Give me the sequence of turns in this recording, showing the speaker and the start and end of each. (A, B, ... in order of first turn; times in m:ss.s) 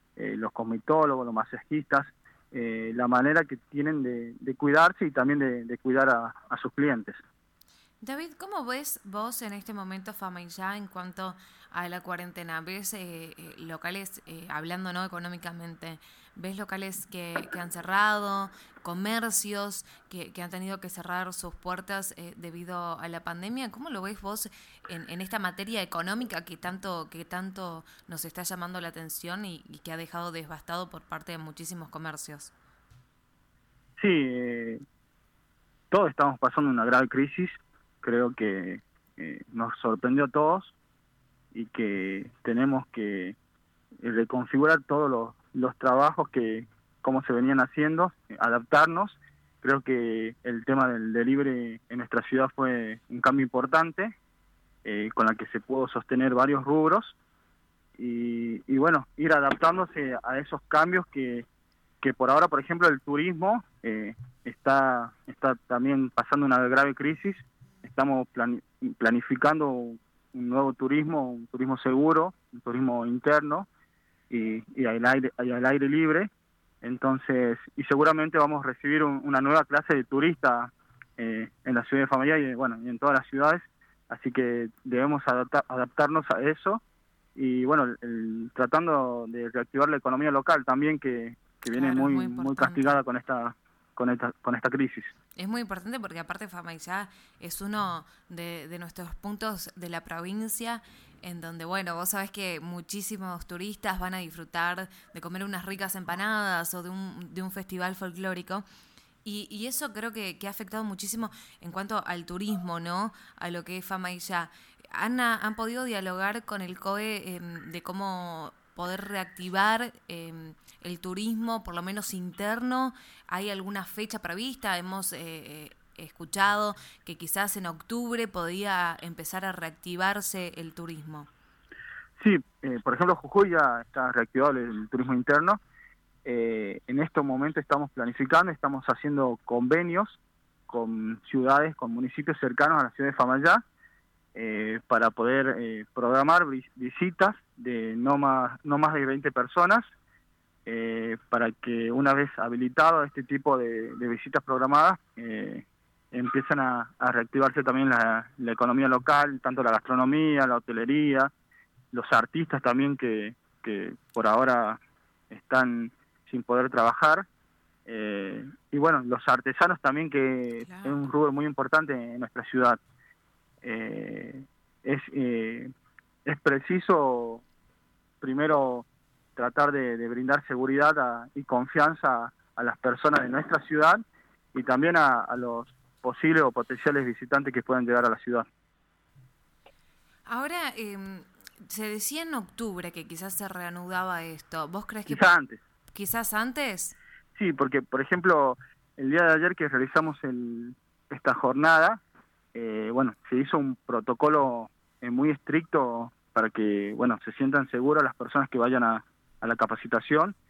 0:00.2-0:07.2 A
0:08.0-0:32.5 B
0:34.0-0:34.8 A
0:35.9-0:40.7 A
0:41.5-0:43.4 A
0:44.0-0:54.1 A
0:54.8-0:57.1 A
0:58.0-1:01.5 A
1:02.0-1:13.7 A
1:14.3-1:16.3 A
1:16.8-1:26.8 A
1:27.4-1:35.1 A
1:31.7-1:33.0 B
1:35.4-1:48.6 B
1:49.2-2:11.3 B
2:12.2-2:15.6 A
2:16.2-2:23.6 A
2:24.3-2:29.8 A
2:30.6-2:41.3 A
2:41.9-2:47.3 A
2:47.8-2:52.8 A
2:50.6-2:51.0 B
2:53.6-2:55.7 A
2:56.2-2:57.4 A
2:58.2-3:04.0 A
3:04.5-3:08.5 A
3:10.3-3:15.2 B
3:15.1-3:15.6 A
3:15.9-3:17.0 B
3:17.4-3:22.0 A
3:22.5-3:30.4 A